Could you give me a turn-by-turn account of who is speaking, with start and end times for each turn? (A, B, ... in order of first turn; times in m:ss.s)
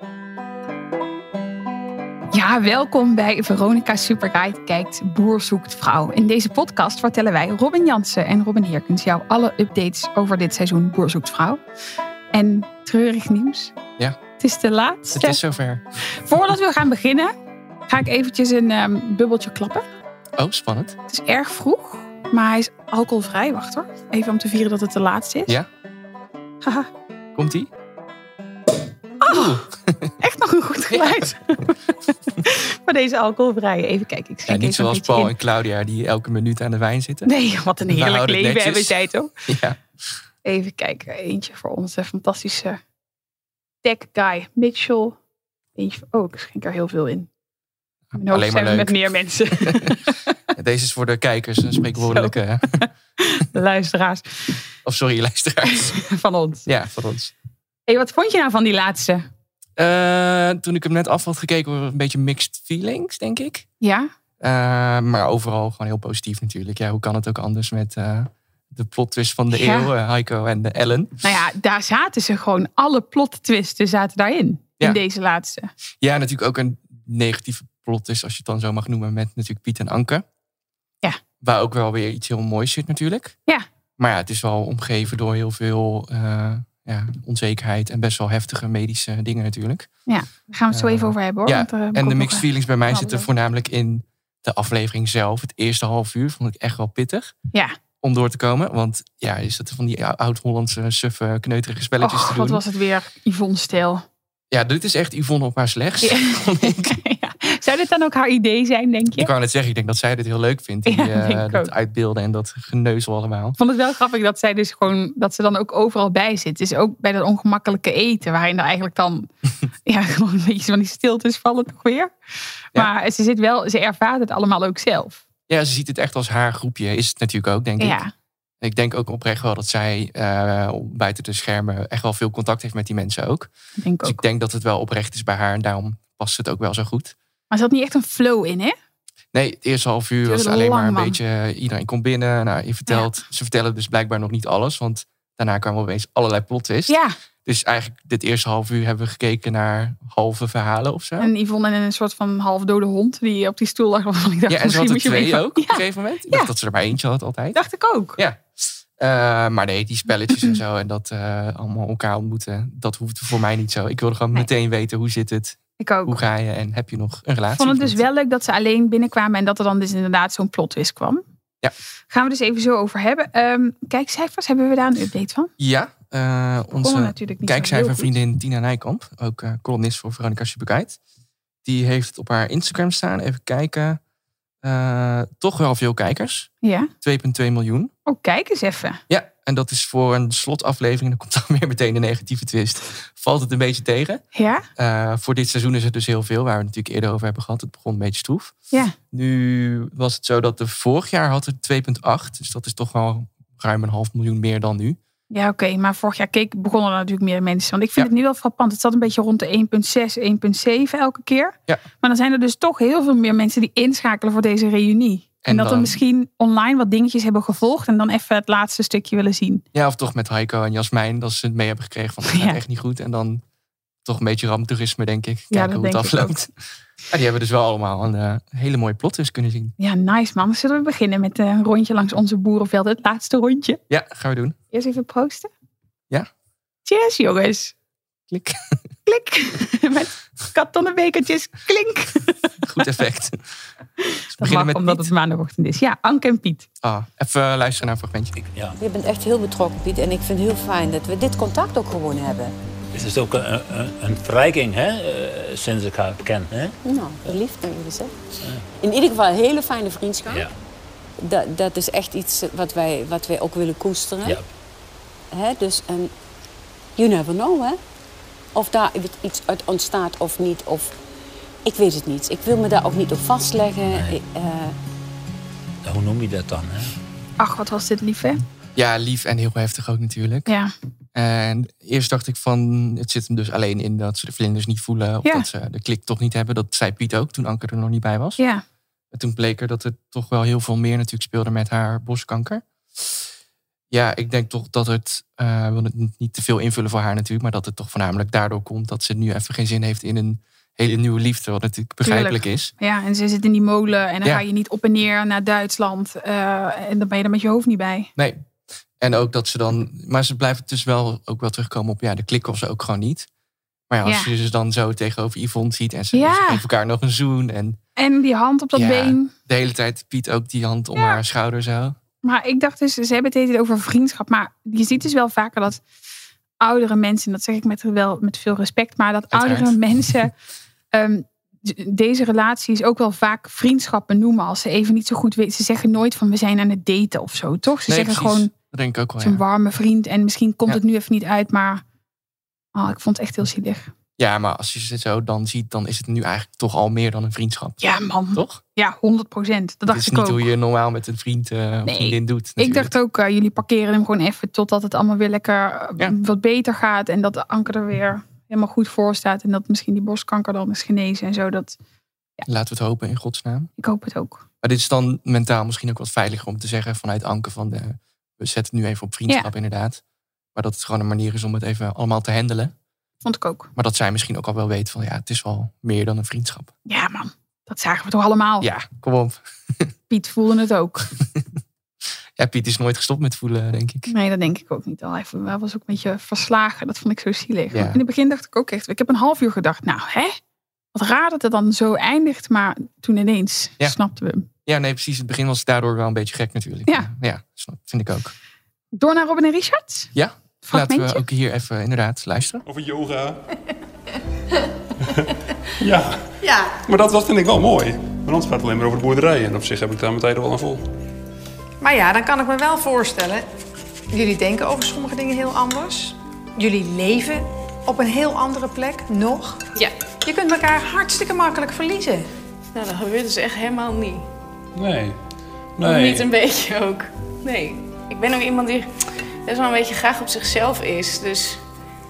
0:02.3-0:11.6 A
0:12.3-0:13.7 A
0:14.4-0:15.4 A
0:15.1-0:15.8 B
0:16.1-0:17.3 A
0:17.9-0:19.8 A
0:20.4-0:21.0 B
0:21.1-0:25.5 A
0:26.6-0:26.9 A
0:27.3-0:27.7 B
0:29.2-0:29.6 A
0:29.2-0:30.1 B
0:30.2-0:35.3 A
0:30.9-0:31.2 B
0:34.5-0:37.3 B
0:37.2-0:39.3 A
0:37.9-0:39.8 B
0:40.4-0:42.8 A
0:43.8-0:45.2 A
0:45.8-0:47.3 A
0:48.1-0:49.0 B
0:48.2-0:50.2 A
0:49.5-0:49.9 B
0:50.5-0:52.8 B
0:52.0-0:54.6 A
0:54.8-0:55.9 B
0:55.6-0:56.7 A
0:56.6-0:57.3 B
0:57.9-0:59.3 A
0:59.8-1:03.6 B
1:03.8-1:04.1 A
1:04.4-1:11.2 B
1:09.5-1:09.9 A
1:11.2-1:15.7 A
1:16.0-1:20.2 B
1:21.4-1:23.4 B
1:24.0-1:29.9 B
1:30.1-1:33.3 A
1:30.7-1:37.3 B
1:38.0-1:42.6 B
1:42.0-1:44.0 A
1:44.5-1:47.0 B
1:46.0-1:49.3 A
1:49.2-1:53.6 B
1:50.8-1:51.7 A
1:53.6-1:59.3 A
1:59.8-2:02.1 A
2:02.7-2:05.2 A
2:05.5-2:08.0 B
2:07.8-2:08.1 A
2:08.6-2:13.5 B
2:13.8-2:14.2 A
2:14.0-2:17.1 B
2:17.5-2:18.7 A
2:19.3-2:31.3 B
2:20.2-2:21.2 A
2:26.9-2:27.1 A
2:31.2-2:36.5 A
2:34.5-2:37.6 B
2:37.5-2:38.2 A
2:38.2-2:48.0 B
2:45.8-2:46.2 A
2:47.5-2:51.2 A
2:52.1-2:55.5 A
2:55.6-3:01.0 B
2:56.8-2:58.1 A
3:01.6-3:04.0 B
3:04.6-3:06.5 B
3:06.6-3:06.9 A
3:07.0-3:07.9 B
3:08.0-3:09.0 A
3:09.1-3:14.2 B
3:14.3-3:14.6 A
3:14.8-3:18.5 B
3:19.1-3:25.0 B
3:25.3-3:39.6 A
3:35.4-3:35.9 B
3:39.7-3:43.4 B
3:42.3-3:42.6 A
3:44.0-3:46.5 B
3:45.5-3:46.5 A
3:47.1-3:49.7 B
3:49.8-3:53.8 A
3:53.9-3:54.6 B
3:54.7-3:55.5 A
3:56.8-3:57.7 A
3:58.3-3:58.8 B
3:59.0-4:02.5 A
4:02.6-4:03.4 B
4:04.0-4:06.6 A
4:04.3-4:05.1 B
4:06.8-4:08.3 B
4:08.4-4:08.8 C
4:08.8-4:12.5 D
4:12.9-4:16.7 C
4:16.8-4:18.1 D
4:18.8-4:20.4 D
4:21.2-4:24.4 D
4:25.3-4:26.1 D
4:27.0-4:27.8 D
4:28.5-4:30.9 D
4:31.6-4:34.7 D
4:33.9-4:34.2 C
4:35.8-4:36.9 C
4:37.4-4:38.4 A
4:38.8-4:40.5 B
4:41.1-4:48.4 B
4:48.4-4:48.6 A
4:49.1-4:53.2 B
4:53.9-5:02.7 B
5:02.0-5:08.1 A
5:08.2-5:08.4 B
5:09.0-5:13.3 B
5:13.9-5:17.8 B
5:14.0-5:14.3 A
5:16.1-5:16.6 A
5:18.0-5:19.3 A
5:18.7-5:22.0 B
5:22.2-5:25.8 A
5:26.6-5:30.3 A
5:29.3-5:29.8 B
5:30.9-5:38.5 A
5:37.9-5:39.4 B
5:39.2-5:41.8 A
5:42.7-5:43.9 A
5:44.2-5:47.8 B
5:47.8-5:50.5 A
5:48.3-5:48.6 B
5:49.9-5:52.9 B
5:51.8-6:01.8 A
6:02.4-6:03.7 B
6:03.8-6:04.4 A
6:04.6-6:10.0 B
6:10.5-6:12.7 B
6:13.2-6:13.7 A
6:13.8-6:16.7 B
6:16.8-6:18.7 A
6:18.6-6:19.9 B
6:20.1-6:21.1 A
6:22.4-6:24.1 B
6:24.1-6:30.4 A
6:27.7-6:28.0 B
6:30.9-6:34.5 A
6:34.6-6:38.3 B
6:39.0-6:40.1 A
6:40.1-6:42.6 B
6:40.6-6:41.2 A
6:42.7-6:43.4 E
6:45.8-6:46.3 E
6:46.4-6:46.7 F
6:46.8-6:50.9 E
6:51.8-6:53.5 F
6:54.1-6:59.7 F
7:00.2-7:02.3 F
7:02.7-7:04.3 G
7:04.7-7:05.2 E
7:05.8-7:06.3 E
7:05.8-7:11.6 G